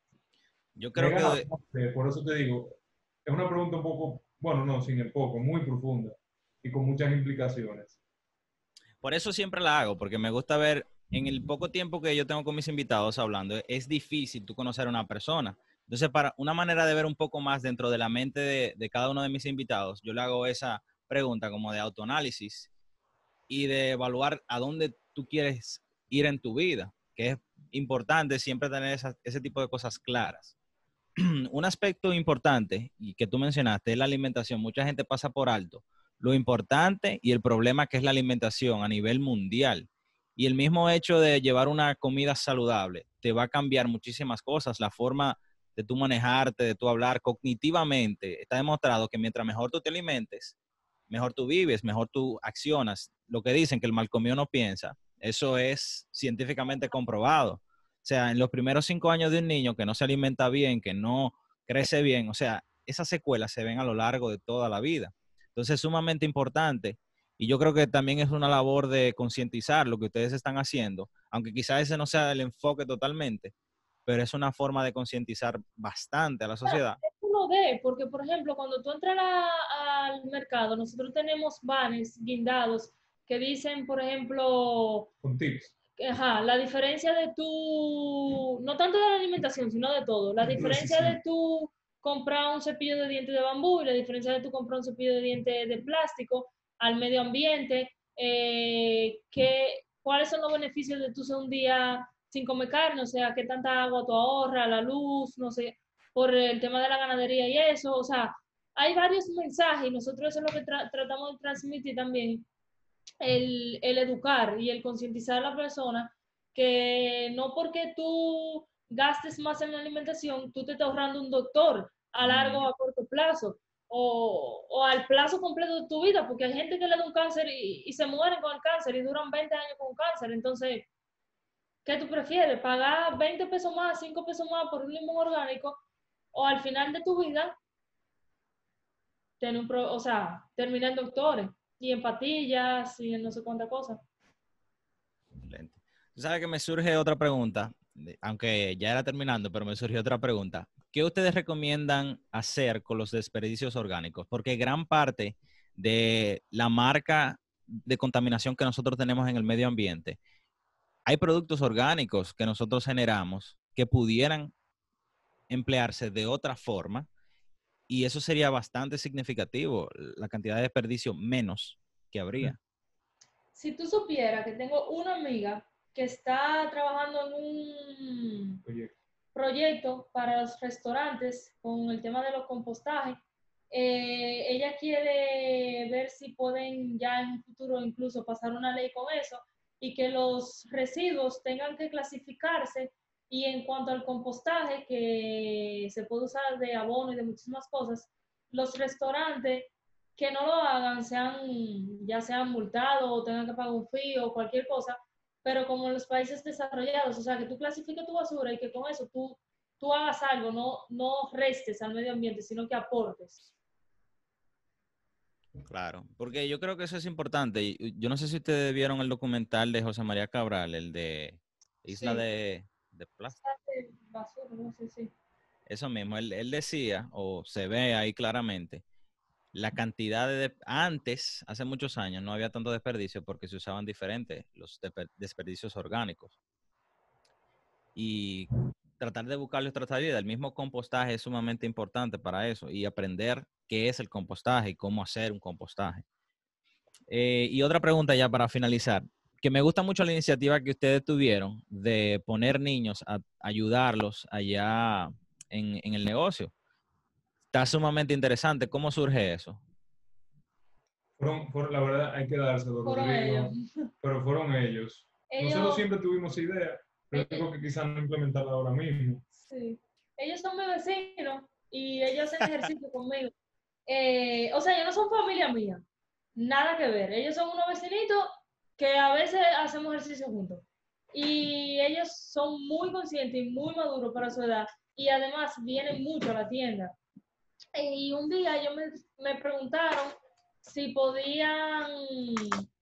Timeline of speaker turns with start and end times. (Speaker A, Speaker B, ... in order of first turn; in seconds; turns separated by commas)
Speaker A: 0.8-1.5, Speaker B: 0.9-8.0, Speaker A: 9.0-22.7, Speaker A: 23.5-30.5, Speaker A: 31.2-50.5, Speaker A: 51.1-73.5, Speaker A: 74.0-77.0, Speaker C: 76.7-85.1, Speaker B: 85.2-85.7, Speaker C: 86.0-112.5, Speaker B: 90.4-91.2, Speaker C: 113.2-130.9, Speaker A: 122.2-122.7, Speaker C: 131.8-135.8, Speaker C: 136.3-137.6, Speaker C: 139.4-144.0, Speaker A: 145.4-160.2, Speaker A: 161.1-164.5, Speaker A: 165.5-167.1, Speaker A: 167.9-172.6, Speaker C: 173.5-178.6, Speaker B: 178.7-178.9, Speaker C: 179.3-183.2, Speaker C: 183.7-213.5, Speaker A: 215.7-223.4, Speaker C: 221.9-222.2, Speaker C: 223.3-225.1, Speaker A: 225.7-228.8, Speaker A: 229.5-236.3, Speaker A: 237.9-246.0, Speaker A: 247.1-256.5, Speaker A: 257.5-259.6, Speaker B: 261.2-269.2, Speaker C: 262.8-263.9, Speaker C: 265.3-265.9, Speaker C: 267.1-267.4, Speaker C: 269.4-273.3, Speaker C: 273.9-275.8, Speaker C: 276.3-286.9, Speaker C: 287.7-292.6